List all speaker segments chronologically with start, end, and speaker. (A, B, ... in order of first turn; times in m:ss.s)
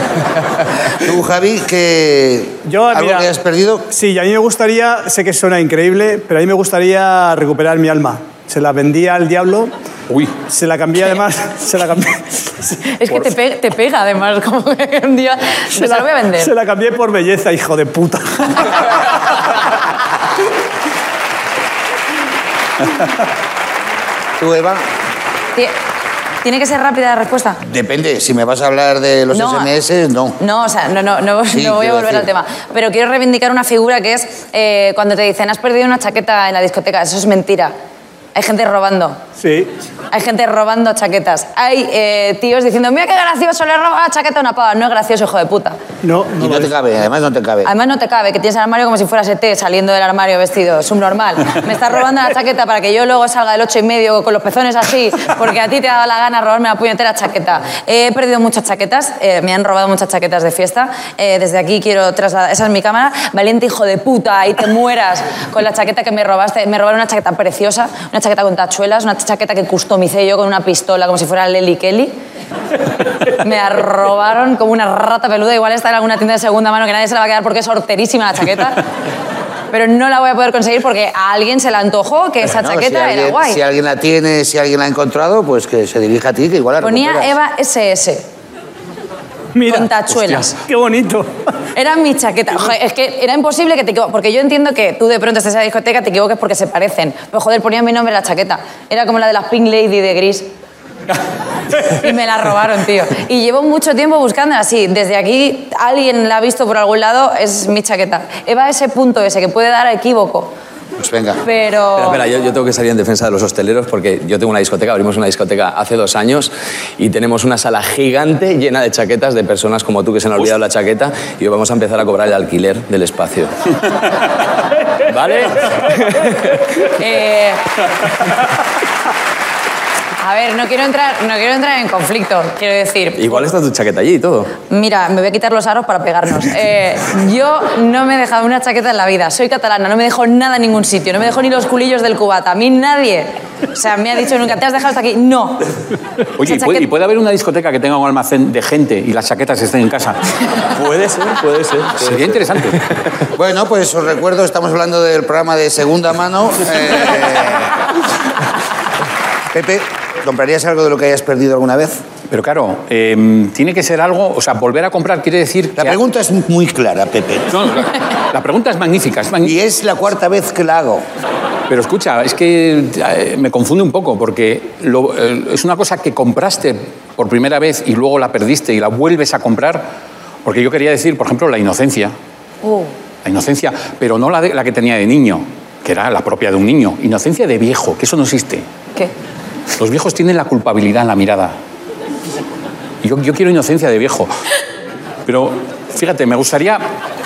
0:01.0-0:03.9 A
0:02.7-0:03.3 B
0:03.9-0:09.7 B
0:10.1-0:10.3 C
0:10.5-0:12.8 B
0:12.8-0:16.5 D
0:15.7-0:18.9 B
0:24.4-0:24.9 A
0:26.4-0:27.6 D
0:27.6-0:30.4 A
0:29.3-0:29.7 D
0:30.4-0:37.7 D
0:31.5-0:32.3 A
0:38.4-0:39.2 D
0:39.4-0:39.7 B
0:40.1-0:45.8 D
0:46.0-0:46.7 B
0:46.4-0:47.7 A
0:47.6-1:12.2 D
1:13.3-1:18.8 D
1:19.7-1:23.6 D
1:22.4-1:27.4 A
1:26.8-1:28.3 D
1:29.5-1:29.9 B
1:29.7-1:30.5 D
1:30.2-1:30.6 C
1:30.6-1:31.3 B
1:31.8-1:40.5 D
1:41.8-1:50.5 D
1:51.0-1:51.4 A
1:51.4-1:52.2 D
1:52.0-2:03.5 E
2:05.0-2:06.7 E
2:06.9-2:07.7 D
2:10.2-2:13.5 D
2:13.2-2:14.5 E
2:14.7-2:25.6 D
2:26.4-2:30.2 C
2:26.4-2:26.9 D
2:30.7-2:32.8 E
2:32.0-2:32.8 C
2:33.4-2:37.9 A
2:39.5-2:42.0 A
2:42.3-2:46.0 C
2:45.8-2:47.6 A
2:47.5-2:49.6 C
2:49.4-2:51.0 A
2:51.7-2:59.9 C
3:00.4-3:02.1 C
3:02.6-3:02.9 D
3:03.2-3:08.7 C
3:09.8-3:11.6 C
3:13.0-3:14.3 C
3:15.3-3:16.8 C